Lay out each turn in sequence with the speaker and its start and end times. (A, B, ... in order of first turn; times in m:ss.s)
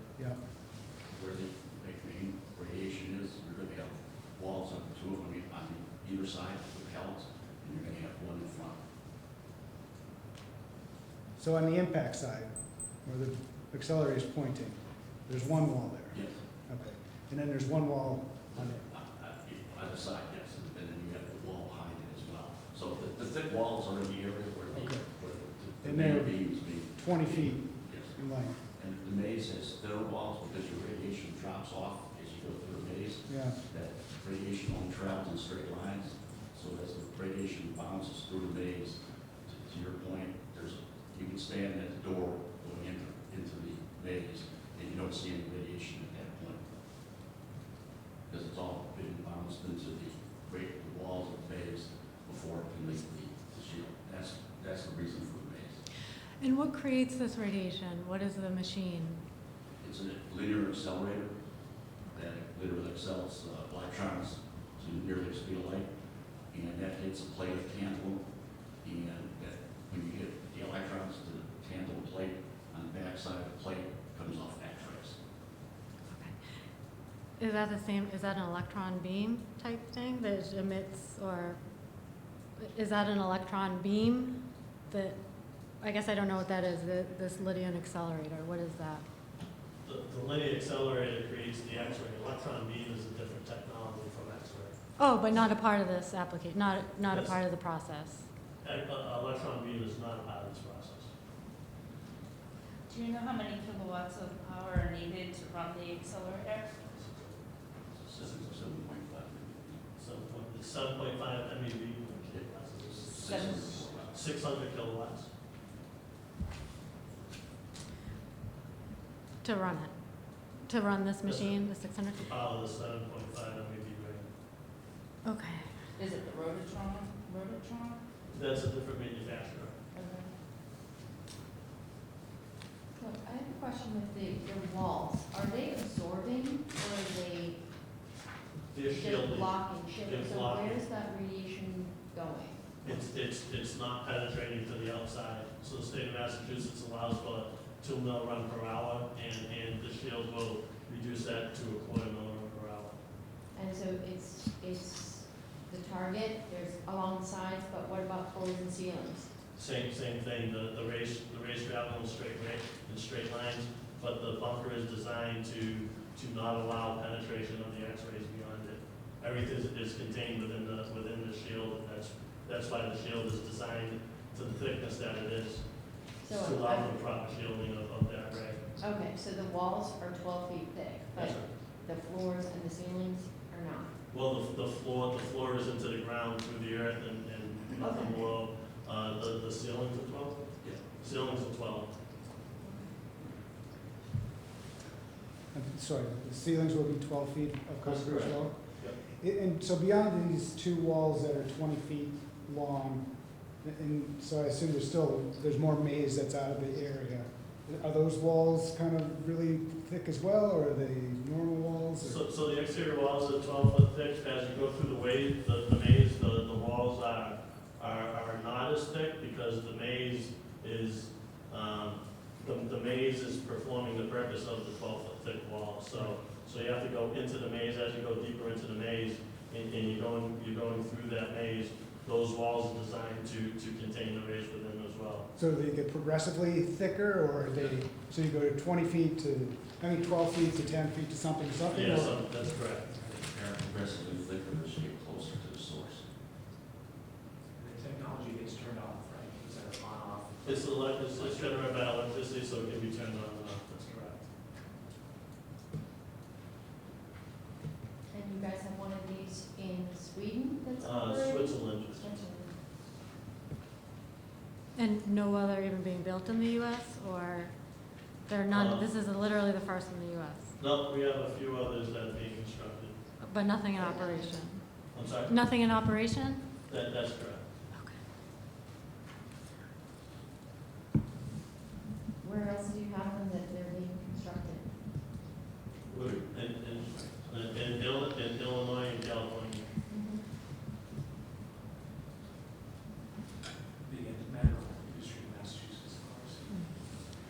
0:01.1-0:08.8 A
0:11.4-0:12.5 B
0:13.0-0:18.8 B
0:16.1-0:16.4 A
0:18.5-0:28.2 A
0:24.7-0:25.0 B
0:25.8-0:28.6 B
0:28.7-0:46.6 A
0:33.3-0:33.6 B
0:48.3-0:55.8 A
0:56.4-0:59.2 C
0:59.8-1:01.3 A
1:02.1-1:05.9 A
1:06.5-1:08.2 A
1:08.8-1:15.2 A
1:16.1-1:16.3 C
1:17.4-1:21.6 C
1:22.6-1:25.2 C
1:25.8-1:29.0 C
1:29.8-1:34.7 D
1:35.0-1:38.2 C
1:37.1-1:37.4 D
1:38.6-1:41.1 D
1:42.9-1:46.8 E
1:46.9-1:47.3 D
1:48.0-1:49.8 A
1:48.2-1:48.7 D
1:50.0-1:53.5 D
1:52.2-1:54.2 A
1:53.1-1:53.9 E
1:54.1-1:55.3 D
1:59.4-1:59.9 C
2:00.6-2:02.3 C
2:01.2-2:04.3 D
2:05.2-2:05.6 C
2:06.0-2:08.0 E
2:08.3-2:09.7 D
2:09.9-2:10.3 E
2:13.0-2:17.6 F
2:18.7-2:20.8 D
2:18.8-2:23.0 F
2:22.8-2:33.0 D
2:33.5-2:39.3 F
2:39.5-2:58.6 D
2:56.2-2:57.0 F
2:58.8-3:03.9 F
3:01.1-3:01.5 D
3:04.1-3:11.9 D
3:07.8-3:08.3 F
3:12.6-3:12.9 F
3:15.5-3:18.6 B
3:17.8-3:18.3 A
3:19.1-3:23.1 B
3:23.6-3:32.2 B
3:32.0-3:55.3 D
3:55.3-4:02.2 B
4:01.7-4:02.9 D
4:03.0-4:06.0 A
4:07.6-4:10.7 G
4:10.4-4:14.2 D
4:18.1-4:22.6 F
4:20.8-4:22.0 D
4:24.7-4:27.5 C
4:28.3-4:30.5 C
4:28.5-4:28.9 D
4:30.6-4:32.9 D
4:33.2-4:34.6 C
4:33.7-4:34.4 F
4:34.9-4:35.4 D
4:35.2-4:36.5 C
4:36.7-4:37.4 D
4:42.2-4:44.7 F
4:45.8-4:49.6 D
4:45.9-4:47.4 A
4:49.9-4:50.2 F
4:53.8-4:57.1 G